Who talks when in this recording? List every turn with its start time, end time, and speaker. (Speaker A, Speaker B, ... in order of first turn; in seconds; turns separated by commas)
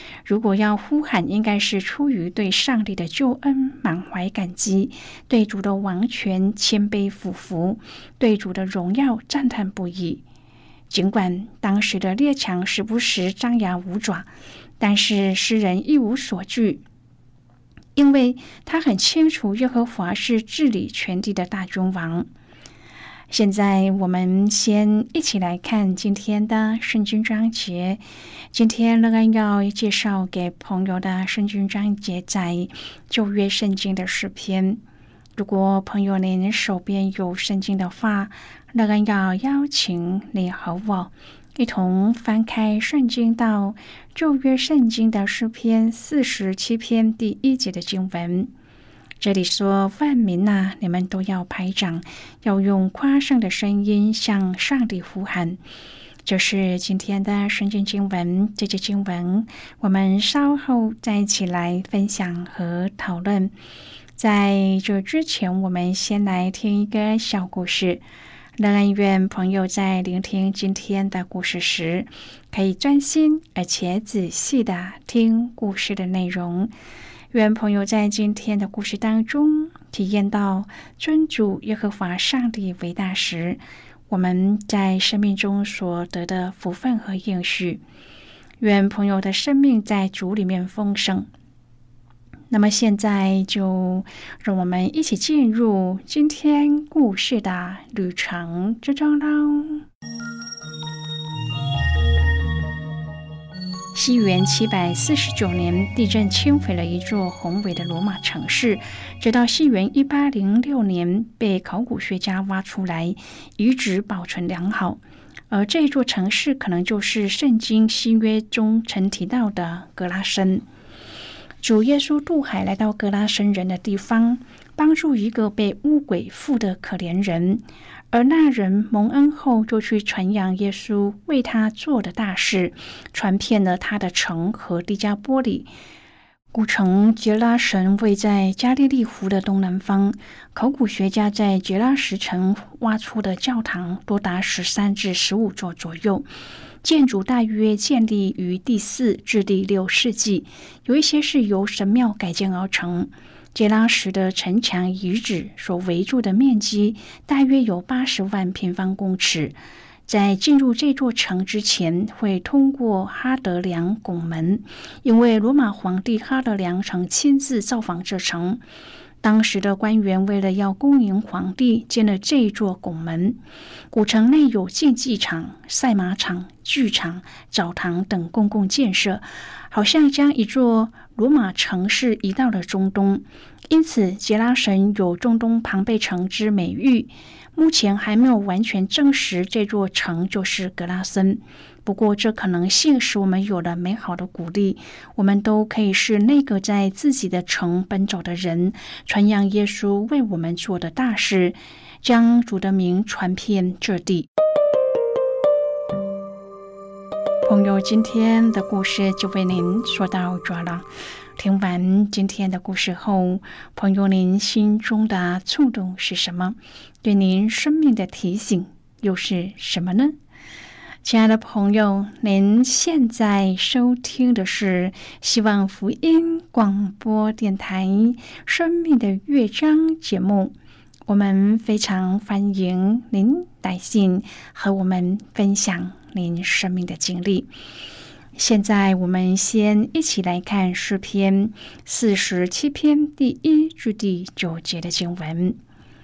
Speaker A: 0.2-10.2, Speaker A: 10.9-14.3, Speaker A: 14.8-16.8, Speaker A: 17.9-22.3, Speaker A: 23.3-28.0, Speaker A: 28.5-34.8, Speaker A: 35.4-48.5, Speaker A: 49.2-55.6, Speaker A: 56.2-63.5, Speaker A: 64.2-68.0, Speaker A: 68.6-76.7, Speaker A: 77.3-87.8, Speaker A: 88.6-91.3, Speaker A: 92.5-99.8, Speaker A: 103.9-120.6, Speaker A: 121.6-135.7, Speaker A: 136.5-146.2, Speaker A: 146.8-159.5, Speaker A: 160.1-168.6, Speaker A: 169.2-173.4, Speaker A: 173.9-204.3, Speaker A: 207.4-210.8, Speaker A: 211.4-220.2, Speaker A: 221.0-230.5, Speaker A: 231.1-237.5, Speaker A: 238.3-245.6